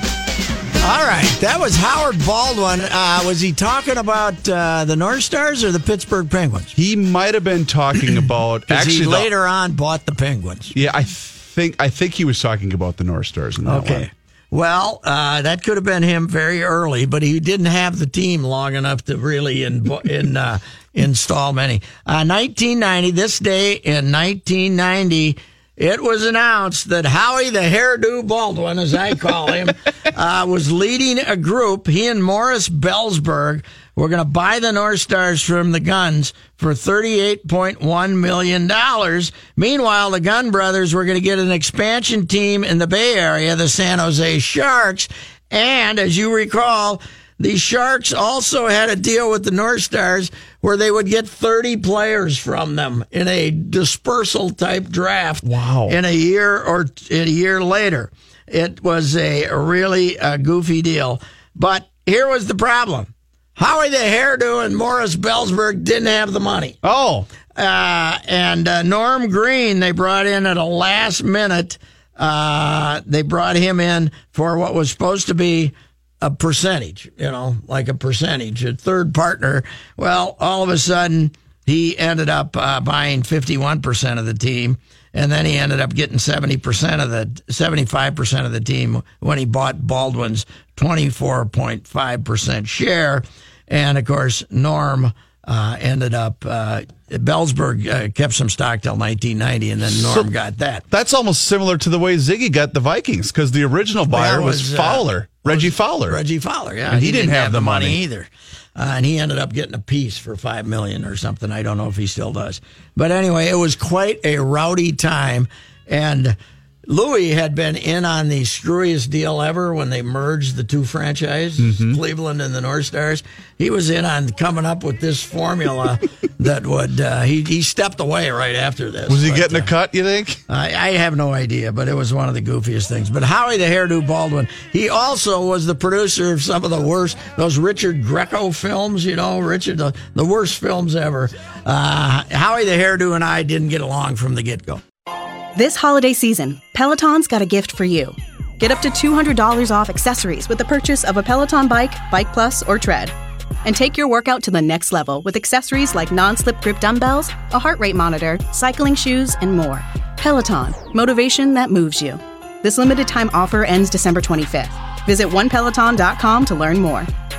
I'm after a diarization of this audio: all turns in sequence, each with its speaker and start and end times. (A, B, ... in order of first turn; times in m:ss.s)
0:00.8-0:06.7 A
0:06.8-0:09.3 B
0:08.7-0:10.7 A
0:10.7-0:14.1 B
0:13.6-1:06.8 A
0:55.4-0:56.0 B
1:06.8-1:07.3 B
1:07.6-1:40.8 A
1:39.9-1:40.3 B
1:40.9-1:46.2 B
1:44.1-2:09.7 A
1:46.9-1:48.0 B
2:01.6-2:02.0 B
2:09.1-2:10.4 B
2:10.5-2:24.8 A
2:25.6-2:33.1 C
2:33.6-2:47.1 C